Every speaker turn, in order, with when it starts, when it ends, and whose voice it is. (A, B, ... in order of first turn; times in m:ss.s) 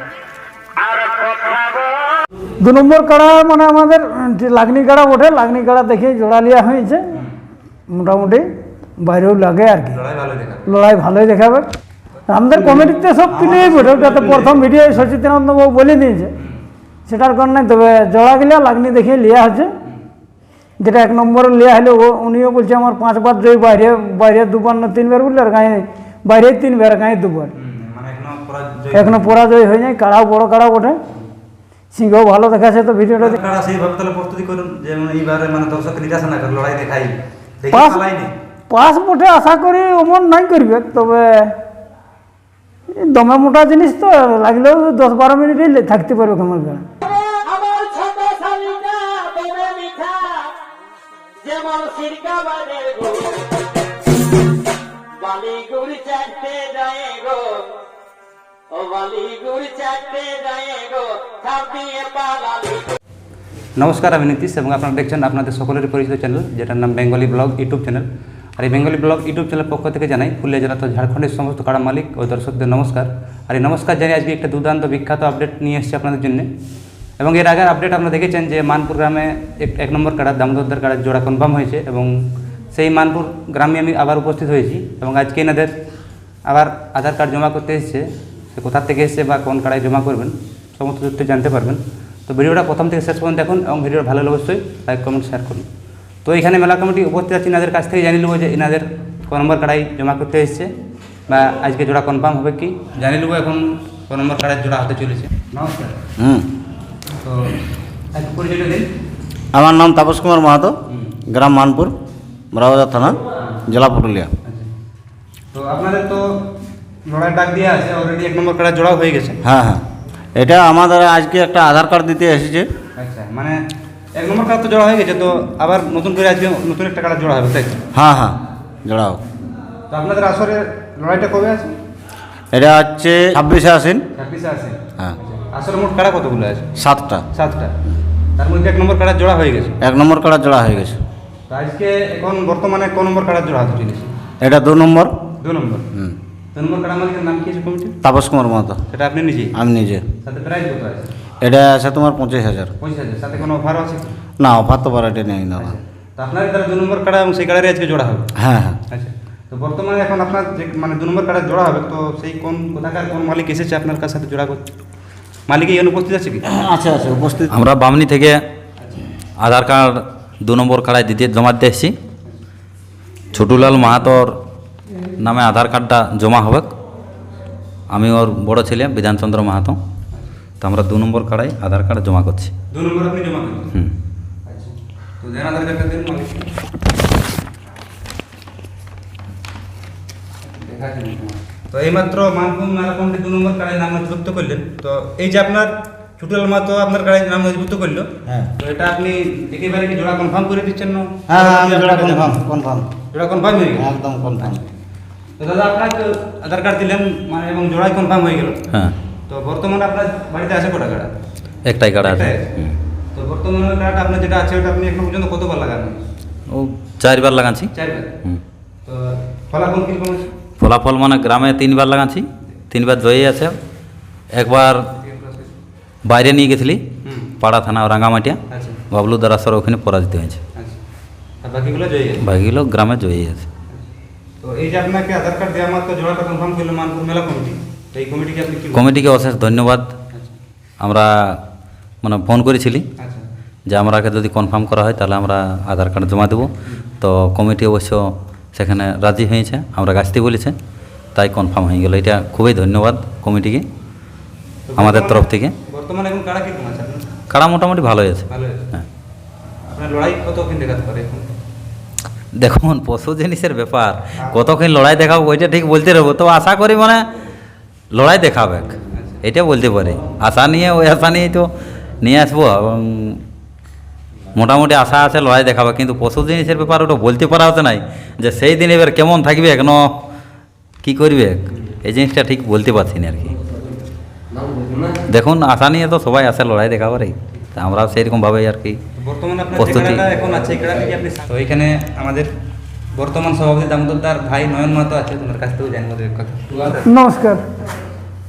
0:00.9-0:01.7 A
0:02.6-0:07.0 B
0:07.9-0:08.5 B
0:09.0-0:10.0 B
0:09.9-0:10.7 C
0:10.7-0:11.7 B
0:12.3-0:16.3 B
0:12.5-0:14.6 C
0:17.1-0:19.7 B
0:20.8-0:27.5 B
0:27.6-0:29.4 C
0:28.9-0:31.0 B
0:31.9-0:33.4 B
0:33.2-0:38.3 C
0:37.7-0:38.0 B
0:38.7-0:41.5 B
0:43.0-0:46.8 B
0:47.2-0:50.5 A
0:51.4-0:53.3 A
0:55.2-0:57.4 A
0:58.8-1:02.6 A
1:03.8-1:08.1 C
1:08.6-1:16.5 C
1:17.2-1:25.7 C
1:26.5-1:35.7 C
1:36.2-1:40.7 C
1:41.3-1:46.0 C
1:46.2-1:46.5 D
1:47.2-1:47.6 C
1:48.1-1:48.9 C
1:49.5-1:50.8 D
1:50.9-1:51.2 C
1:51.3-1:51.9 D
1:52.5-1:54.3 D
1:55.5-1:56.4 C
1:57.1-1:59.4 C
1:59.4-1:59.8 D
2:00.4-2:02.7 D
2:03.0-2:03.6 C
2:04.1-2:07.8 C
2:07.9-2:09.2 D
2:09.9-2:11.7 C
2:12.5-2:14.0 D
2:14.2-2:16.7 C
2:16.8-2:17.3 D
2:17.3-2:17.7 C
2:18.4-2:19.8 C
2:19.8-2:21.0 D
2:21.5-2:24.1 C
2:24.4-2:25.2 D
2:25.4-2:25.9 C
2:26.6-2:28.0 C
2:28.0-2:28.8 D
2:28.9-2:29.5 C
2:29.5-2:30.0 D
2:30.2-2:31.1 C
2:31.4-2:32.7 D
2:32.8-2:34.1 C
2:34.4-2:35.8 D
2:35.6-2:38.3 C
2:38.4-2:38.8 D
2:38.9-2:44.7 C
2:45.5-2:46.4 C
2:46.4-2:47.6 D
2:47.5-2:48.4 E
2:48.8-2:49.0 C
2:49.4-2:51.9 E
2:53.3-2:54.4 E
2:55.2-2:56.7 E
2:57.9-2:59.8 E
3:00.6-3:02.5 E
3:02.7-3:03.7 C
3:04.5-3:06.5 C
3:10.5-3:22.4 C
3:21.3-3:22.9 D
3:23.1-3:23.9 C
3:23.8-3:24.6 D
3:25.4-3:28.6 C
3:29.3-3:31.1 C
3:31.7-3:32.8 E
3:32.0-3:32.4 C
3:33.2-3:36.0 C
3:36.5-3:37.7 E
3:37.8-3:38.1 C
3:38.9-3:40.3 C
3:40.6-3:43.6 E
3:44.3-3:44.8 E
3:45.0-3:45.5 C
3:46.1-3:46.8 E
3:47.0-3:47.3 C
3:47.4-3:48.4 E
3:48.5-3:48.8 C
3:48.9-3:50.4 E
3:51.4-3:52.2 C
3:52.2-3:53.4 E
3:54.4-3:58.9 C
3:58.7-3:59.9 E
4:00.8-4:01.4 E
4:02.0-4:02.8 E
4:03.0-4:03.2 C
4:03.7-4:06.5 E
4:07.0-4:08.0 E
4:08.6-4:10.6 E
4:11.2-4:13.6 E
4:14.7-4:17.1 C
4:14.8-4:15.6 E
4:17.3-4:18.9 E
4:18.3-4:18.6 C
4:19.7-4:21.3 C
4:22.4-4:27.0 E
4:24.2-4:24.6 C
4:27.9-4:31.5 E
4:28.9-4:29.2 C
4:32.0-4:33.2 E
4:34.4-4:39.8 E
4:40.8-4:43.4 E
4:45.1-4:48.8 E
4:49.0-4:52.3 C
4:49.6-4:50.0 E
4:52.9-4:56.9 C
4:56.8-4:57.4 B